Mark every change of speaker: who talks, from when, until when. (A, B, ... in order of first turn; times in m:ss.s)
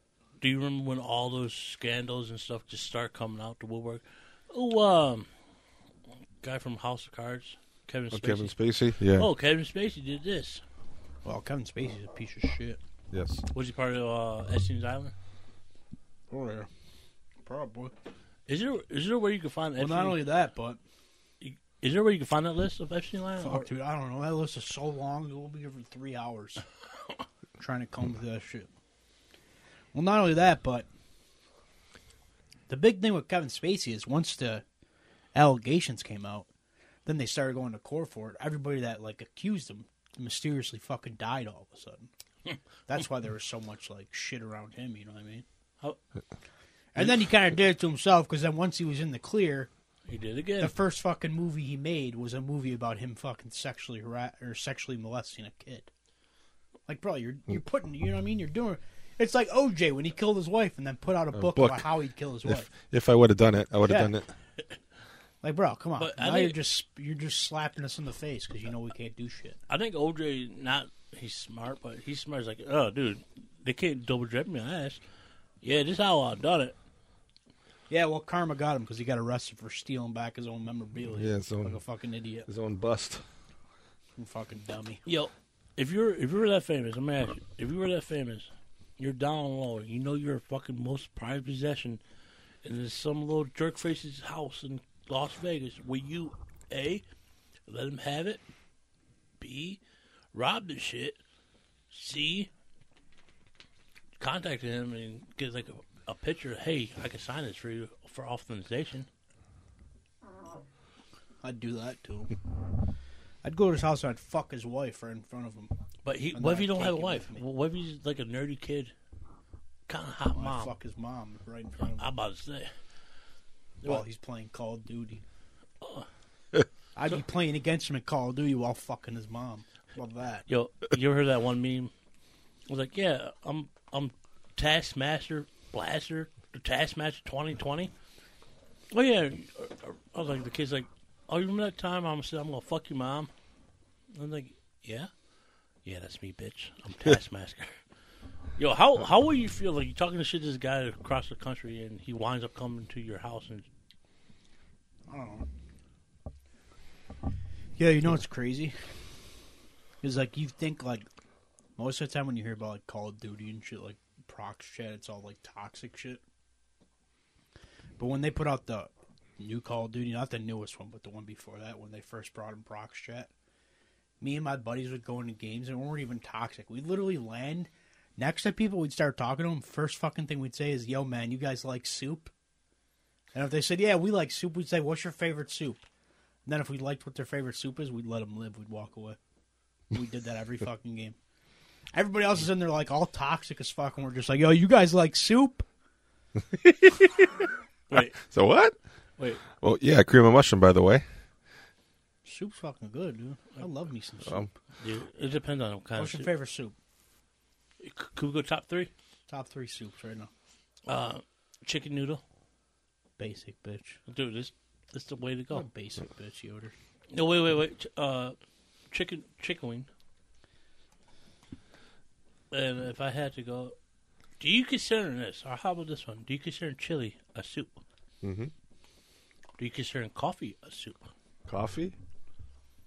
0:00.4-0:05.3 A
0:06.4-0:10.6 A
0:08.1-0:09.3 B
0:11.2-0:12.8 C
0:13.1-0:13.4 B
0:13.5-0:15.1 A
0:16.3-0:16.7 C
0:17.4-0:17.9 C
0:18.5-0:20.2 A
0:19.8-0:20.8 C
0:21.4-0:23.7 A
0:23.4-0:26.6 C
0:27.6-0:28.7 C
0:29.9-0:30.9 C
0:32.7-0:34.6 C
0:35.3-0:36.5 C
0:37.0-0:42.1 C
0:42.9-0:45.4 C
0:46.9-0:49.7 C
0:50.1-0:50.7 A
0:50.6-0:55.9 C
0:56.9-1:02.7 C
1:01.3-1:01.8 B
1:02.4-1:04.3 B
1:03.8-1:04.1 C
1:05.4-1:09.6 C
1:06.0-1:06.6 A
1:09.7-1:15.0 A
1:15.6-1:16.7 A
1:17.9-1:22.5 C
1:21.2-1:21.8 B
1:22.5-1:23.2 B
1:24.2-1:25.0 C
1:25.0-1:32.0 A
1:32.6-1:37.0 A
1:37.7-1:38.4 A
1:39.4-1:39.8 A
1:40.3-1:41.2 A
1:41.9-1:42.5 A
1:44.2-1:49.1 A
1:51.4-1:52.3 C
1:53.4-1:55.7 C
1:56.0-1:58.9 A
1:56.3-1:57.4 C
1:59.9-2:00.8 A
2:00.3-2:02.1 C
2:02.0-2:02.7 A
2:03.8-2:05.2 C
2:05.8-2:06.1 A
2:07.0-2:10.4 C
2:10.5-2:11.9 A
2:12.7-2:17.9 A
2:18.9-2:23.3 A
2:24.1-2:25.1 A
2:25.8-2:27.8 A
2:28.6-2:33.7 A
2:35.1-2:35.5 C
2:37.8-2:38.9 C
2:40.0-2:41.1 C
2:41.8-2:46.2 C
2:48.0-2:53.3 C
2:54.2-3:02.3 C
3:03.3-3:05.8 C
3:06.4-3:09.2 C
3:09.9-3:11.2 C
3:11.9-3:15.6 C
3:16.5-3:17.4 B
3:17.9-3:18.3 A
3:18.2-3:18.7 B
3:19.6-3:21.0 B
3:22.2-3:24.5 C
3:24.8-3:26.3 A
3:26.0-3:26.7 C
3:27.8-3:28.9 A
3:29.3-3:30.3 C
3:30.9-3:32.2 A
3:33.2-3:34.0 C
3:34.1-3:35.6 A
3:35.5-3:36.7 C
3:37.1-3:38.4 A
3:38.9-3:39.9 A
3:42.5-3:43.7 A
3:44.4-3:47.7 A
3:48.2-3:48.5 B
3:49.6-3:51.1 A
3:51.5-3:51.9 B